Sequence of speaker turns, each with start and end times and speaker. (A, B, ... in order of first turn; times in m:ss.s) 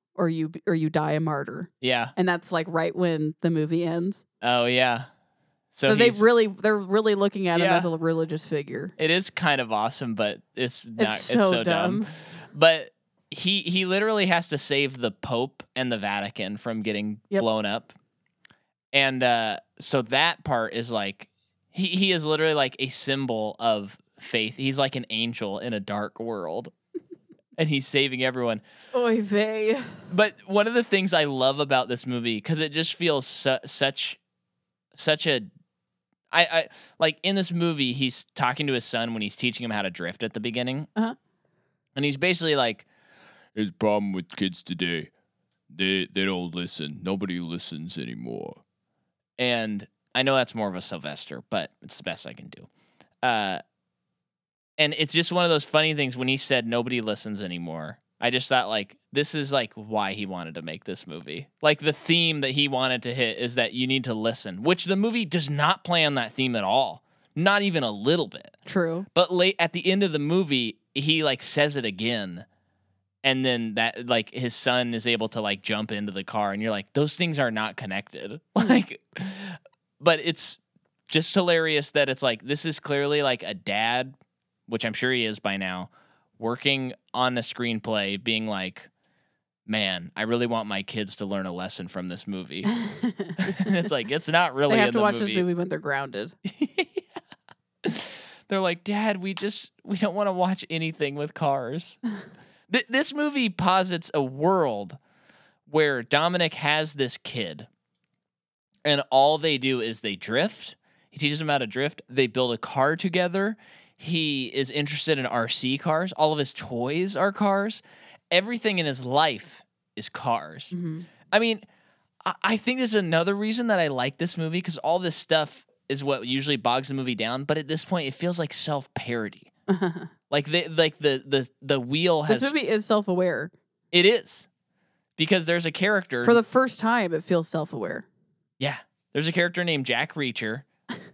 0:00.2-0:04.2 A
0:01.8-0:02.1 B
0:04.4-0:05.1 B
0:05.7-0:06.2 B
0:05.9-0:08.9 A
0:07.5-0:07.9 B
0:09.0-0:17.9 B
0:11.0-0:12.1 A
0:18.9-0:26.7 B
0:27.6-0:28.6 B
0:28.9-0:30.0 A
0:30.1-0:34.2 B
0:34.9-0:35.5 B
0:36.3-0:40.9 B
0:41.9-0:42.8 B
0:43.5-0:45.1 C
0:45.7-0:48.6 C
0:49.4-0:52.7 B
0:53.2-0:53.6 B
0:54.8-1:08.5 B
1:08.6-1:09.0 A
1:09.1-1:12.4 B
1:13.2-1:24.1 B
1:24.7-1:28.9 B
1:29.7-1:32.7 B
1:32.7-1:33.7 A
1:33.4-1:35.4 B
1:34.7-1:36.3 A
1:36.4-1:37.1 B
1:37.8-1:42.0 B
1:42.7-1:45.0 B
1:45.7-1:47.7 B
1:48.8-2:00.7 B
2:00.7-2:01.1 A
2:01.3-2:01.6 B
2:02.2-2:09.5 B
2:09.7-2:10.1 A
2:10.3-2:12.5 B
2:12.3-2:13.5 A
2:13.9-2:14.5 B
2:15.2-2:16.4 B
2:16.2-2:18.0 A
2:18.6-2:20.6 B